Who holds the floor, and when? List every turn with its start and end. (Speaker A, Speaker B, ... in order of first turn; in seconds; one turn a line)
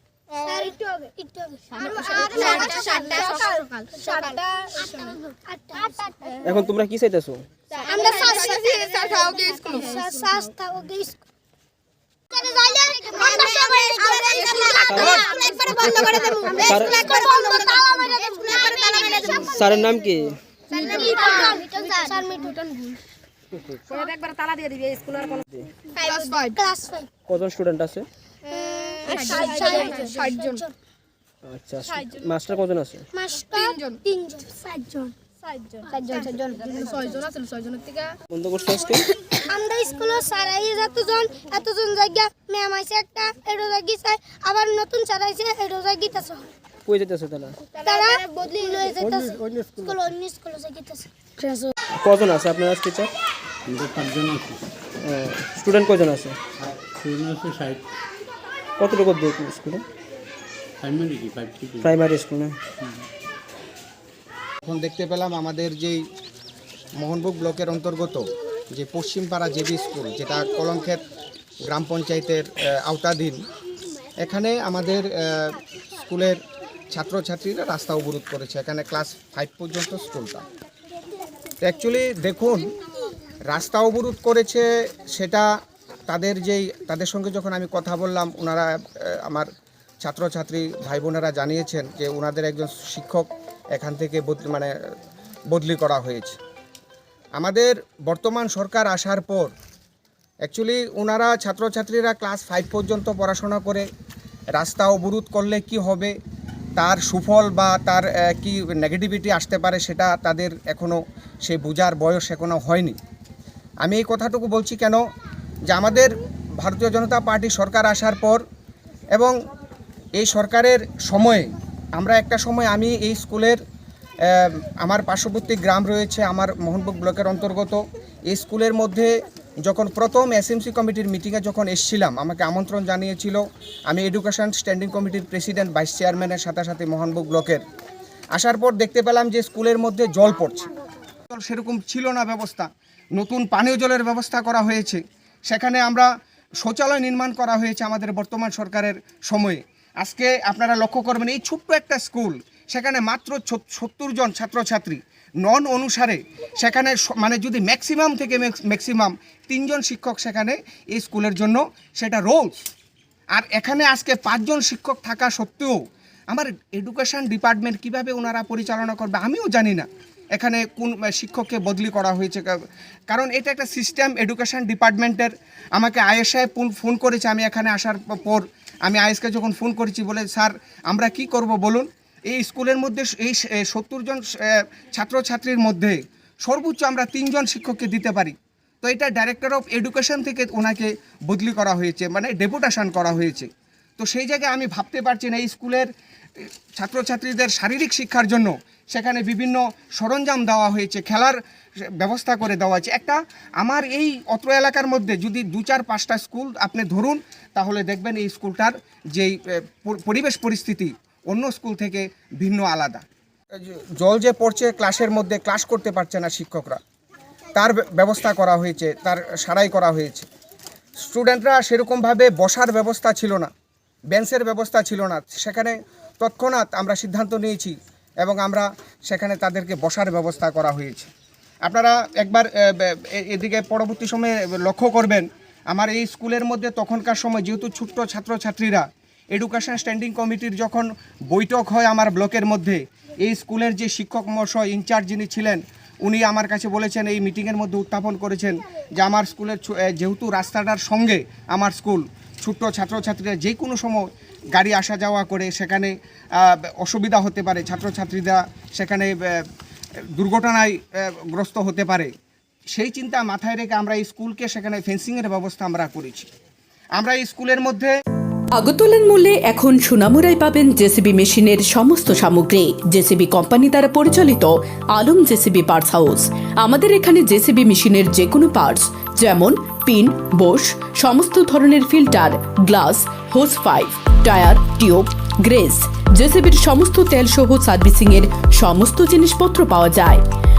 Speaker A: 0.3-6.7
Speaker B: 0.4-0.7
Speaker B: 1.8-5.2
Speaker C: 6.4-7.4
Speaker B: 7.7-10.5
Speaker A: 7.7-11.2
Speaker A: 12.3-19.7
Speaker B: 13.1-19.5
Speaker C: 14.8-15.3
Speaker C: 16.6-17.1
Speaker C: 19.4-20.4
Speaker B: 20.7-23.0
Speaker A: 20.7-22.6
Speaker B: 23.9-26.6
Speaker A: 25.9-27.1
Speaker C: 27.3-28.1
Speaker A: 28.4-30.7
Speaker B: 29.0-30.6
Speaker C: 31.4-33.0
Speaker B: 31.9-32.3
Speaker A: 33.1-35.1
Speaker B: 33.5-34.0
Speaker B: 35.4-38.1
Speaker A: 35.9-37.1
Speaker C: 38.3-39.2
Speaker A: 39.3-46.5
Speaker C: 46.9-47.6
Speaker B: 47.8-48.2
Speaker A: 47.8-51.6
Speaker C: 49.0-49.9
Speaker C: 52.0-53.1
Speaker D: 53.7-54.6
Speaker C: 55.0-56.4
Speaker D: 56.6-57.8
Speaker C: 58.8-59.8
Speaker D: 60.8-61.9
Speaker C: 61.8-62.6
Speaker E: 64.6-66.0
Speaker E: 67.0-71.0
Speaker E: 71.7-73.4
Speaker E: 74.2-80.4
Speaker E: 81.6-82.7
Speaker E: 83.5-85.5
Speaker E: 86.1-89.5
Speaker E: 90.0-94.7
Speaker E: 95.5-96.4
Speaker E: 97.4-99.5
Speaker E: 100.4-103.8
Speaker E: 104.5-106.1
Speaker E: 106.8-113.0
Speaker E: 113.8-115.0
Speaker E: 115.7-118.4
Speaker E: 120.2-123.6
Speaker E: 124.2-137.6
Speaker E: 138.3-140.7
Speaker E: 141.3-146.1
Speaker E: 146.6-162.6
Speaker E: 163.3-165.8
Speaker E: 166.3-213.0
Speaker E: 213.5-216.8
Speaker E: 217.5-220.3
Speaker E: 221.0-223.5
Speaker E: 224.1-231.1
Speaker E: 231.6-259.4
Speaker E: 260.1-262.1
Speaker E: 262.7-266.3
Speaker E: 266.9-267.9
Speaker F: 268.5-290.2